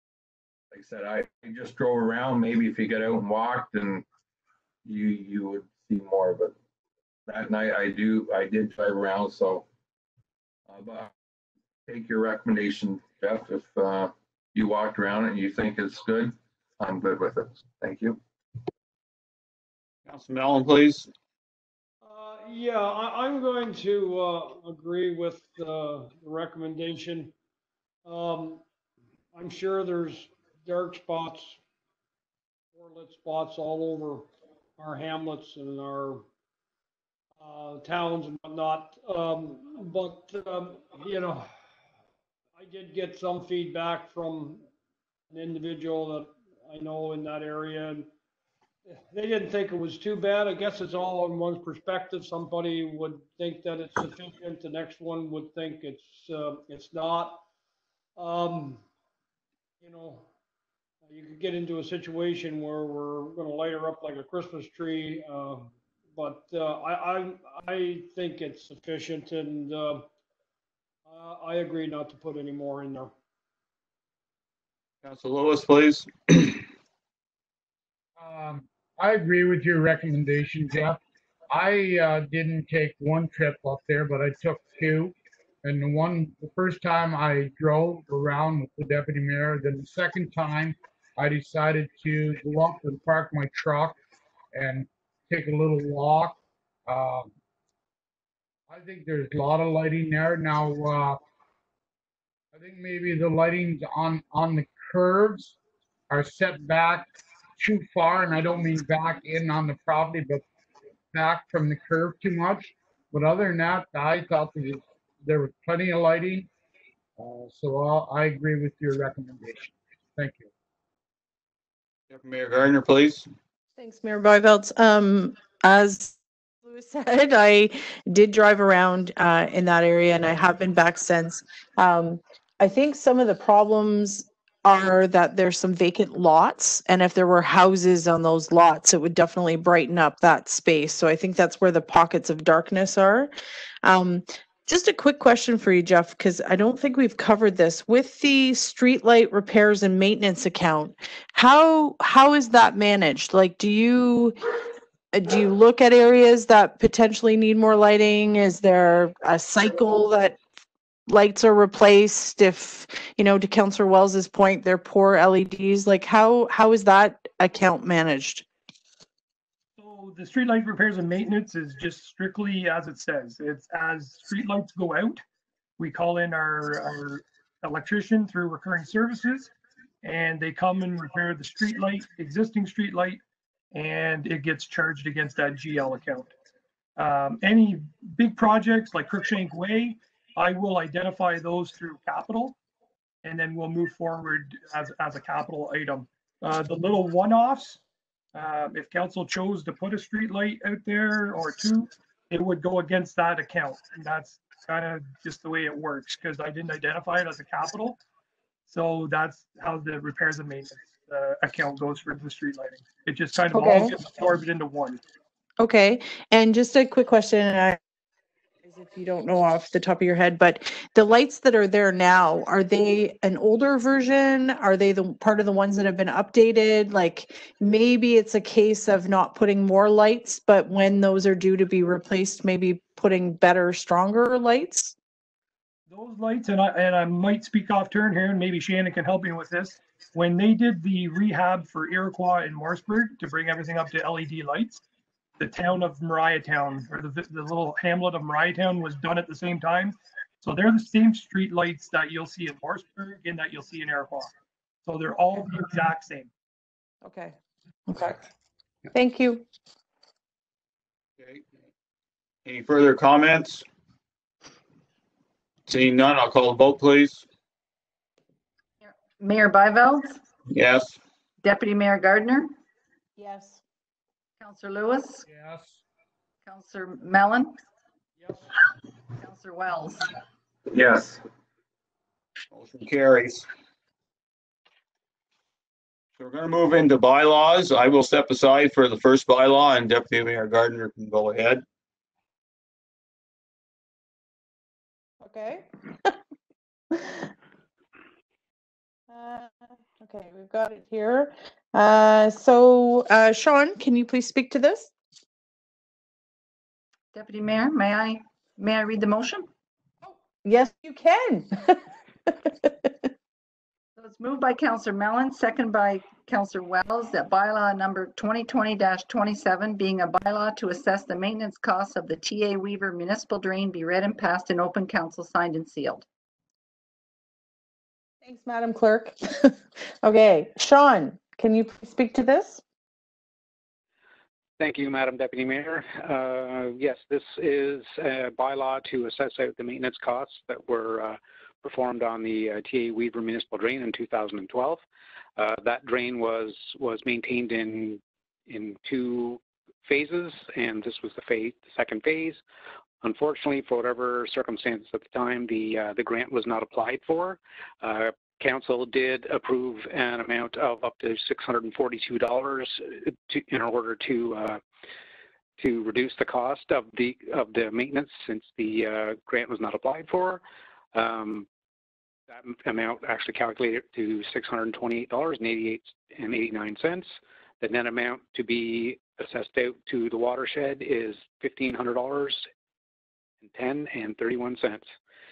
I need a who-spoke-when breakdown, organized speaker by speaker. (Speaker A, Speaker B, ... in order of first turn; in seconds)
Speaker A: 0.7-4.0, 4.8-6.5, 7.3-9.7, 10.7-11.1, 11.9-18.2, 280.7-281.2
Speaker B: 20.1-21.1, 75.0-76.7, 122.1-123.3, 261.2-261.4, 262.4-263.6, 265.7-267.2, 270.5-271.0, 282.5-283.5, 286.2-291.6
Speaker C: 22.0-27.3, 28.0-28.6, 29.3-31.6, 32.7-36.2, 37.4-41.5, 42.5-44.6, 45.3-48.1, 48.9-57.4, 58.2-58.8, 59.8-60.3, 61.1-70.1, 71.0-73.1, 278.2-278.5
Speaker D: 78.2-81.0, 81.5-94.0, 94.5-97.3, 98.7-101.2, 102.5-105.5, 106.1-110.4, 111.1-116.5, 117.2-120.5, 275.3-275.8
Speaker E: 123.8-143.3, 143.8-154.4, 155.1-160.4, 161.1-168.4, 213.5-213.9, 215.6-217.8, 218.6-234.9, 257.0-257.3, 257.9-258.2, 258.9-259.4, 273.2-273.6, 295.2-296.1, 296.9-297.3, 299.1-304.9, 310.0-312.9, 328.2-332.6
Speaker F: 169.8-175.2, 175.8-179.5, 180.0-183.2, 183.7-186.3, 187.0-192.6, 193.2-197.8, 198.3-208.0, 208.7-215.0, 235.9-244.8, 245.4-254.3, 254.8-256.3
Speaker G: 268.8-270.2, 271.4-272.5, 274.4-275.2, 276.4-277.5, 279.2-280.1, 307.1-309.5, 314.0-326.1
Speaker H: 334.6-344.8, 345.4-352.4, 353.0-364.6, 365.6-370.4, 370.9-371.5, 372.3-382.4, 383.4-384.9